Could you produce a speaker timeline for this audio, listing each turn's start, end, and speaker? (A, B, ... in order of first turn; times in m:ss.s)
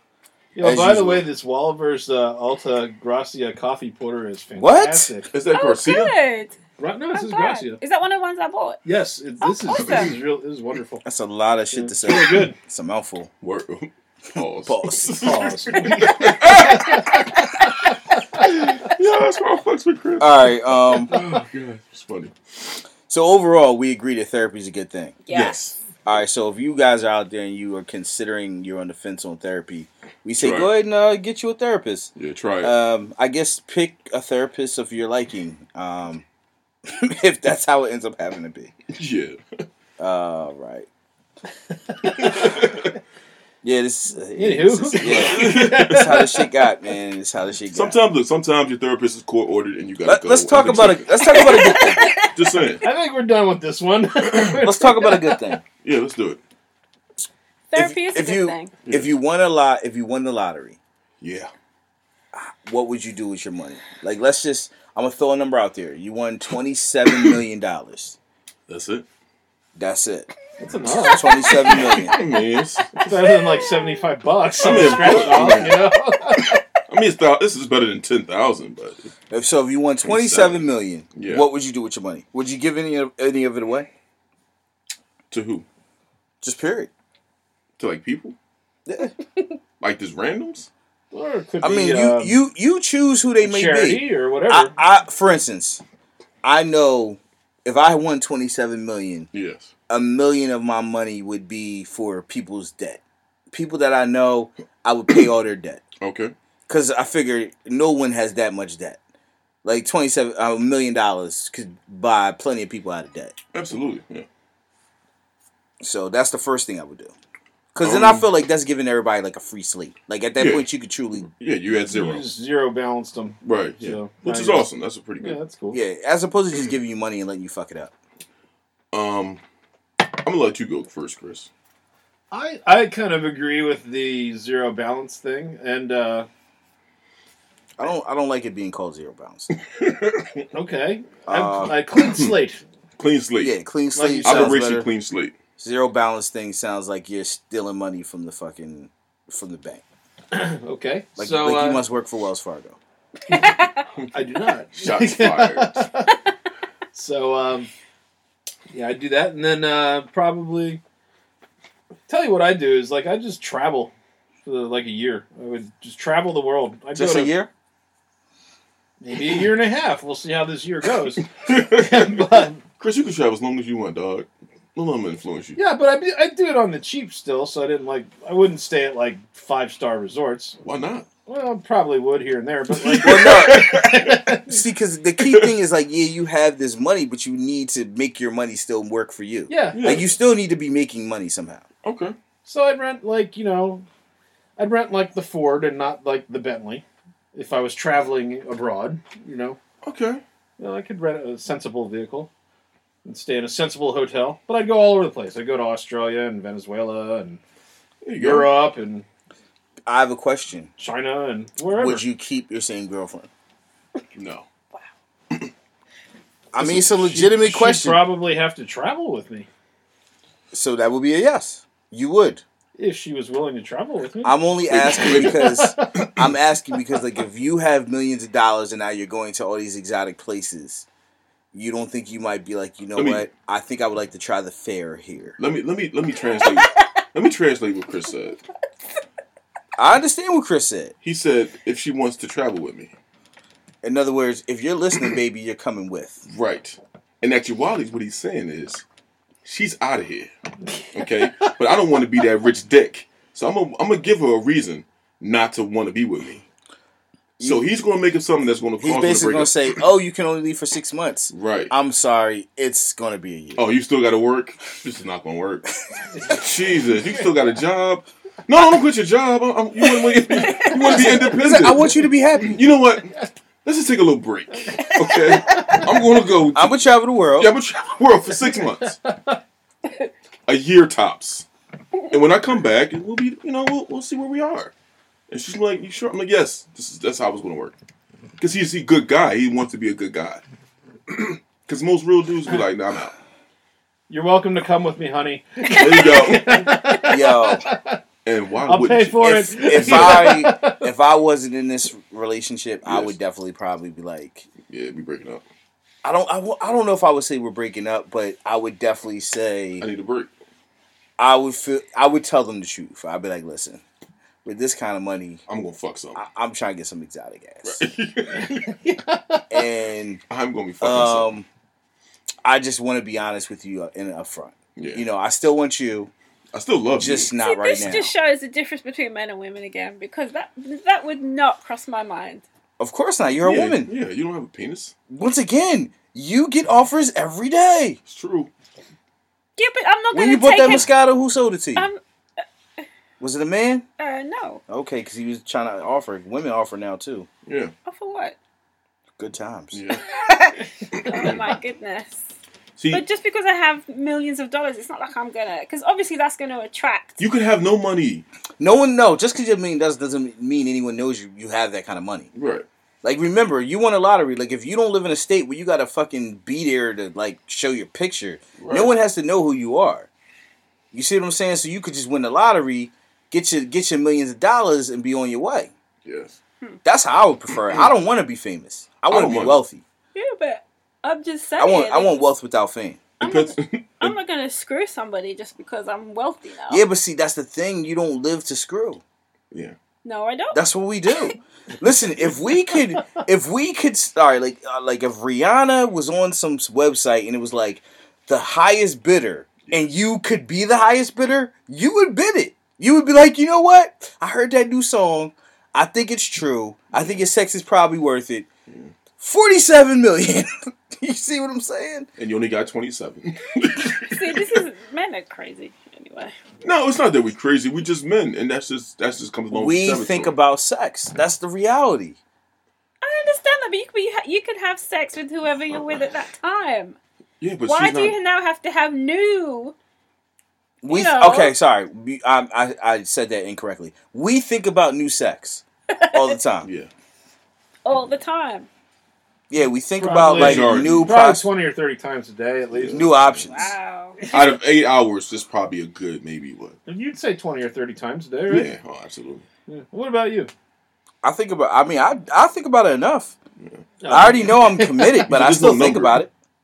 0:00.5-0:05.3 A
0:00.6-0:01.2 B
0:04.6-0:05.1 B
0:05.3-0:06.1 C
0:05.5-0:06.5 D
0:06.8-0:07.8 A
0:07.1-0:08.8 D
0:08.8-0:11.0 A
0:09.4-0:10.1 D
0:11.0-0:13.3 B
0:11.7-0:12.6 A
0:13.4-0:17.5 C
0:14.4-0:15.2 B
0:15.2-0:17.9 A
0:18.4-0:22.4 C
0:20.2-0:21.2 B
0:23.1-0:25.2 B
0:25.2-0:25.6 D
0:25.3-0:25.8 C
0:26.0-0:36.2 B
0:30.4-0:30.7 C
0:32.2-0:32.7 C
0:36.8-0:38.7 B
0:38.9-0:39.4 C
0:40.0-0:40.9 B
0:42.0-0:42.5 A
0:42.1-0:42.9 C
0:43.6-0:48.0 B
0:44.3-0:46.5 A
0:45.0-0:46.1 C
0:47.7-0:52.8 C
0:50.0-0:52.1 B
0:51.2-0:52.8 D
0:52.8-0:55.6 A
0:54.2-0:54.7 C
0:54.6-0:55.6 B
0:55.8-0:56.4 C
0:57.7-0:58.7 D
0:57.7-1:00.8 B
0:58.8-0:59.1 C
1:01.2-1:01.5 C
1:02.3-1:08.2 B
1:07.1-1:07.4 C
1:08.7-1:09.0 C
1:09.8-1:10.3 B
1:10.6-1:12.2 A
1:11.1-1:12.2 B
1:12.0-1:13.1 C
1:13.0-1:16.6 A
1:13.0-1:14.1 D
1:14.6-1:15.9 C
1:14.7-1:15.2 D
1:16.9-1:19.1 C
1:19.3-1:23.9 B
1:20.0-1:21.5 C
1:25.3-1:25.6 C
1:26.4-1:26.9 B
1:27.8-1:28.4 C
1:28.8-1:29.1 B
1:29.8-1:30.7 C
1:31.1-1:32.4 A
1:31.6-1:35.8 B
1:33.4-1:34.7 A
1:36.4-1:39.3 B
1:39.3-1:39.7 C
1:39.9-1:43.0 B
1:43.5-1:45.8 B
1:46.0-1:46.3 C
1:46.7-1:49.0 B
1:49.6-1:53.3 B
1:53.5-1:54.3 C
1:55.8-1:57.1 B
1:57.7-2:01.3 B
1:57.8-1:58.3 C
2:00.4-2:00.7 C
2:01.3-2:02.2 C
2:01.9-2:04.7 A
2:03.4-2:05.4 C
2:05.2-2:05.8 A
2:05.7-2:07.9 B
2:08.9-2:09.4 C
2:10.2-2:11.5 C
2:12.3-2:16.3 A
2:17.8-2:19.5 B
2:19.5-2:20.5 C
2:20.5-2:22.6 A
2:21.3-2:21.8 B
2:22.0-2:22.3 C
2:23.0-2:23.5 C
2:23.4-2:24.9 B
2:23.9-2:24.6 A
2:24.2-2:25.3 C
2:25.6-2:29.8 B
2:30.3-2:31.8 A
2:31.2-2:32.8 B
2:33.3-2:33.8 D
2:34.1-2:36.1 A
2:34.7-2:35.9 C
2:36.9-2:37.7 A
2:38.7-2:40.8 A
2:42.1-2:43.9 A
2:44.4-2:47.3 A
2:46.9-2:47.5 B
2:49.0-2:52.6 A
2:51.4-2:55.6 C
2:55.6-3:00.6 A
3:00.6-3:01.1 C
3:01.3-3:04.6 A
3:02.7-3:04.3 C
3:03.0-3:03.7 B
3:04.5-3:11.6 B
3:05.2-3:05.5 C
3:09.5-3:10.0 A
3:09.7-3:10.1 C
3:11.8-3:12.2 C
3:12.4-3:13.8 A
3:14.6-3:19.6 A
3:19.8-3:20.2 C
3:20.6-3:22.3 A
3:23.0-3:27.4 A
3:28.0-3:28.5 C
3:28.2-3:29.0 A
3:29.8-3:30.7 B
3:30.8-3:32.0 A
3:31.7-3:33.3 B
3:34.1-3:34.4 C
3:36.5-3:38.0 B
3:36.7-3:39.5 A
3:40.5-3:42.4 B
3:42.8-3:46.2 A
3:44.2-3:50.8 B
3:44.7-3:45.4 C
3:51.5-3:55.4 B
3:52.9-3:53.2 C
3:55.4-3:58.4 C
3:59.8-4:00.9 B
4:01.0-4:02.9 C
4:03.8-4:06.2 B
4:06.2-4:08.8 C
4:09.4-4:10.3 C
4:10.9-4:16.4 C
4:17.4-4:19.8 C
4:17.4-4:17.6 B
4:18.8-4:23.6 B
4:21.3-4:21.7 C
4:23.6-4:25.7 C
4:26.2-4:36.8 C
4:30.5-4:32.6 B
4:36.5-4:37.5 B
4:37.4-4:39.0 C
4:39.0-4:39.4 A
4:40.4-4:41.5 C
4:42.1-4:44.7 C
4:45.3-4:47.7 C
4:48.4-4:50.4 C
4:51.1-4:53.1 C
4:54.1-4:58.0 A
4:55.7-4:56.0 D
4:55.7-4:56.7 C
4:57.0-4:57.6 B
4:58.2-5:00.3 C
4:58.6-5:00.8 A
4:59.2-5:04.5 B
5:02.8-5:03.1 C
5:04.7-5:05.4 C
5:06.0-5:09.8 B
5:09.8-5:10.3 C
5:11.2-5:13.8 B
5:14.4-5:15.4 B
5:15.5-5:16.2 C
5:16.2-5:17.8 B
5:17.6-5:18.7 C
5:18.3-5:19.6 A
5:19.5-5:20.2 B
5:20.3-5:21.3 C
5:20.8-5:21.5 B
5:22.4-5:26.1 B
5:24.8-5:25.0 C
5:26.5-5:27.3 C
5:27.0-5:28.1 B
5:27.4-5:32.4 D
5:32.8-5:33.9 B
5:33.4-5:35.0 C
5:35.1-5:38.0 B
5:38.0-5:38.5 C
5:39.6-5:40.9 D
5:40.1-5:41.9 B
5:43.2-5:43.8 B
5:44.0-5:44.6 D
5:44.7-5:47.3 B
5:47.4-5:47.7 C
5:47.8-5:48.4 D
5:49.2-5:50.4 B
5:49.7-5:50.1 C
5:50.1-5:52.2 D
5:50.9-5:51.4 C
5:52.8-5:53.0 C
5:52.9-5:57.2 D
5:57.2-5:58.2 C
5:58.6-6:02.3 B
6:02.3-6:02.6 C
6:03.0-6:10.1 B
6:08.6-6:08.9 C
6:10.9-6:15.7 B
6:16.0-6:16.4 C
6:16.8-6:19.8 B
6:19.1-6:19.6 C
6:20.1-6:22.2 D
6:21.6-6:23.0 B
6:23.2-6:26.8 D
6:23.2-6:24.1 C
6:26.7-6:29.0 B
6:30.0-6:30.6 D
6:30.5-6:48.5 B
6:46.9-6:47.2 C
6:49.2-6:52.1 B
6:52.2-6:54.6 C
6:54.1-6:56.3 D
6:56.6-7:00.3 C
6:59.5-7:02.2 B
7:03.0-7:07.0 D
7:07.4-7:08.2 C
7:07.6-7:09.7 D
7:10.8-7:16.7 B
7:10.9-7:11.5 D
7:15.9-7:16.4 D
7:16.6-7:16.9 C
7:17.8-7:18.7 D
7:19.5-7:21.5 B
7:20.0-7:23.1 A
7:20.3-7:21.2 C
7:22.7-7:23.5 C
7:22.9-7:23.7 B
7:23.5-7:24.2 D
7:24.2-7:24.5 A
7:24.3-7:26.8 C
7:26.9-7:28.7 A
7:28.5-7:29.4 C
7:29.7-7:30.5 A
7:31.2-7:33.3 B
7:34.0-7:35.3 A
7:34.1-7:36.3 B
7:35.3-7:36.2 C